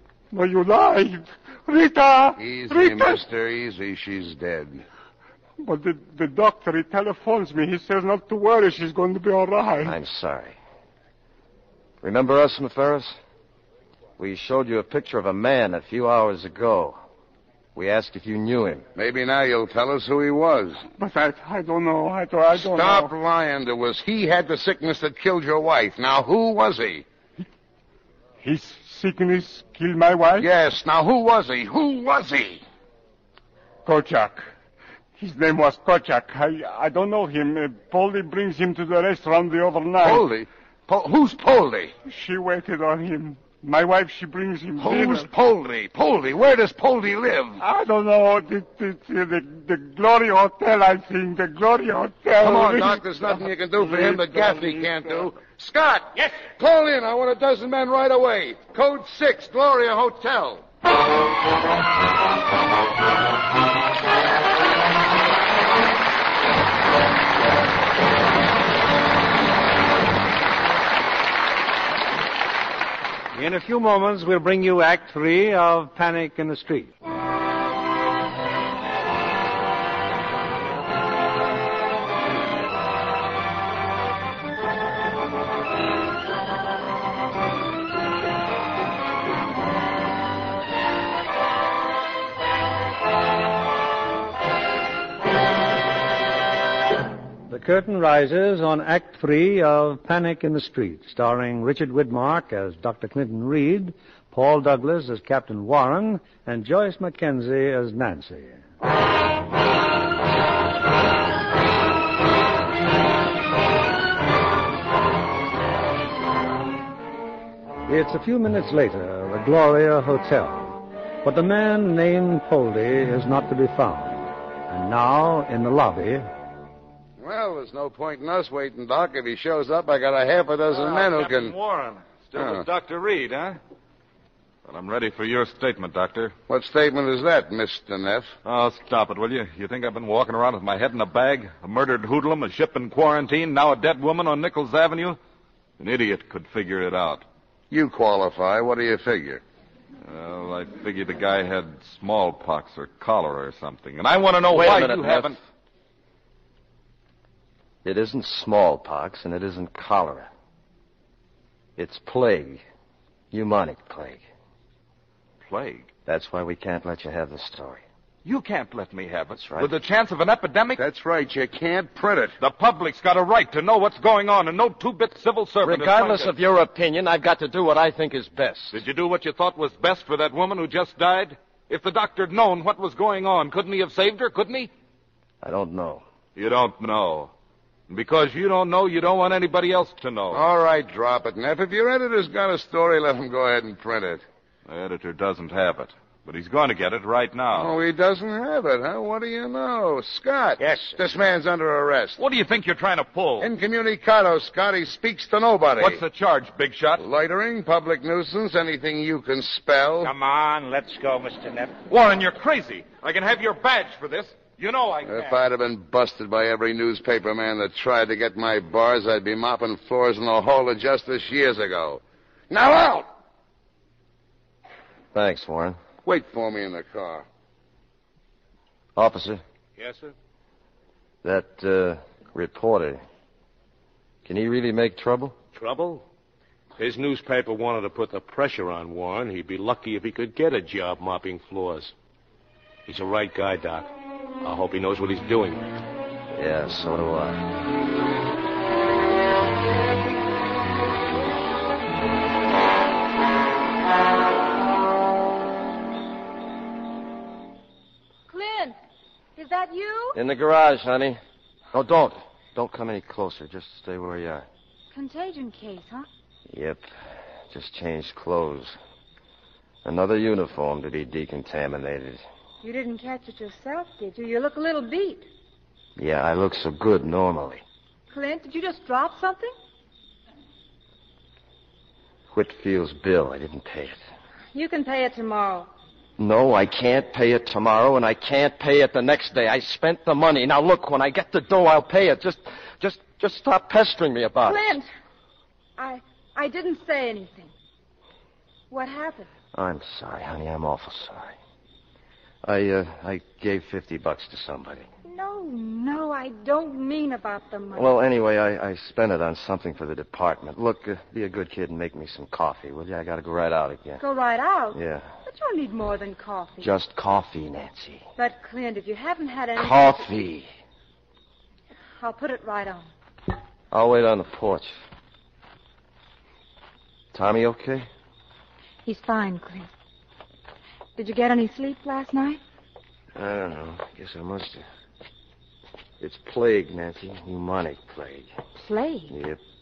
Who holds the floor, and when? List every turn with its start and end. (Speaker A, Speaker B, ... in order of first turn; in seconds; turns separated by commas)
Speaker A: 0.3-3.2, Speaker B: 2.4-4.8, Speaker A: 5.6-9.9, Speaker C: 9.8-10.6, Speaker C: 12.0-13.2, Speaker C: 14.2-17.0, Speaker C: 17.8-18.9, Speaker B: 19.0-20.9, Speaker A: 21.0-23.1, Speaker B: 22.5-27.1, Speaker A: 28.4-30.5, Speaker B: 30.4-32.6, Speaker A: 33.9-34.5, Speaker A: 35.2-40.2, Speaker B: 40.0-41.9, Speaker A: 42.0-45.3, Speaker B: 44.8-47.6, Speaker A: 47.6-54.7, Speaker B: 52.4-60.6, Speaker D: 73.3-76.9, Speaker D: 97.5-108.6, Speaker D: 117.9-126.3, Speaker B: 127.2-131.6, Speaker E: 131.0-133.6, Speaker B: 132.4-132.7, Speaker E: 134.7-136.3, Speaker B: 136.5-138.3, Speaker E: 138.4-145.2, Speaker E: 145.8-147.2, Speaker B: 147.7-149.4, Speaker E: 150.0-155.4, Speaker C: 154.5-155.4, Speaker C: 157.8-160.3, Speaker C: 161.8-162.6, Speaker C: 163.3-164.2, Speaker E: 165.5-165.9, Speaker C: 166.1-167.8, Speaker E: 168.2-170.8, Speaker C: 169.4-169.7, Speaker B: 170.8-172.4, Speaker E: 172.4-176.3, Speaker C: 175.6-178.8, Speaker E: 178.7-184.7, Speaker C: 185.4-186.0, Speaker E: 186.4-187.3, Speaker E: 187.9-190.4, Speaker B: 190.3-194.2, Speaker E: 194.7-197.7, Speaker B: 197.5-202.2, Speaker F: 200.6-200.9, Speaker E: 202.2-203.5, Speaker B: 203.4-206.0, Speaker E: 205.8-207.0, Speaker B: 207.0-210.1, Speaker F: 210.0-211.8, Speaker E: 211.9-215.1, Speaker B: 215.1-223.1, Speaker C: 225.1-225.8, Speaker B: 226.1-227.3, Speaker C: 228.9-229.4, Speaker C: 231.2-233.0, Speaker C: 234.2-235.4, Speaker G: 235.6-236.0, Speaker G: 236.8-241.9, Speaker G: 242.9-243.9, Speaker G: 244.4-245.6, Speaker C: 246.3-247.4, Speaker H: 258.3-258.8, Speaker H: 259.4-260.2, Speaker C: 260.1-261.2, Speaker C: 261.7-264.5, Speaker H: 264.9-266.1, Speaker C: 266.5-266.9, Speaker C: 267.5-268.8, Speaker C: 269.8-272.2, Speaker H: 272.6-275.3, Speaker C: 276.0-277.6, Speaker H: 278.1-279.5, Speaker C: 282.3-284.0, Speaker H: 284.5-285.7, Speaker C: 286.2-294.8, Speaker H: 294.4-294.9, Speaker H: 295.8-297.5, Speaker H: 298.7-299.3, Speaker C: 299.5-301.4, Speaker C: 302.4-304.9, Speaker H: 305.1-308.0, Speaker C: 307.8-314.0, Speaker H: 314.0-316.7, Speaker C: 314.7-315.1, Speaker C: 316.6-318.1, Speaker H: 318.2-320.2, Speaker C: 319.6-320.5, Speaker H: 322.0-322.9, Speaker C: 323.7-324.8, Speaker C: 327.1-327.9, Speaker H: 328.9-329.7, Speaker H: 331.0-332.4, Speaker C: 333.1-334.6, Speaker C: 336.0-338.3, Speaker H: 338.6-339.1, Speaker C: 339.1-339.4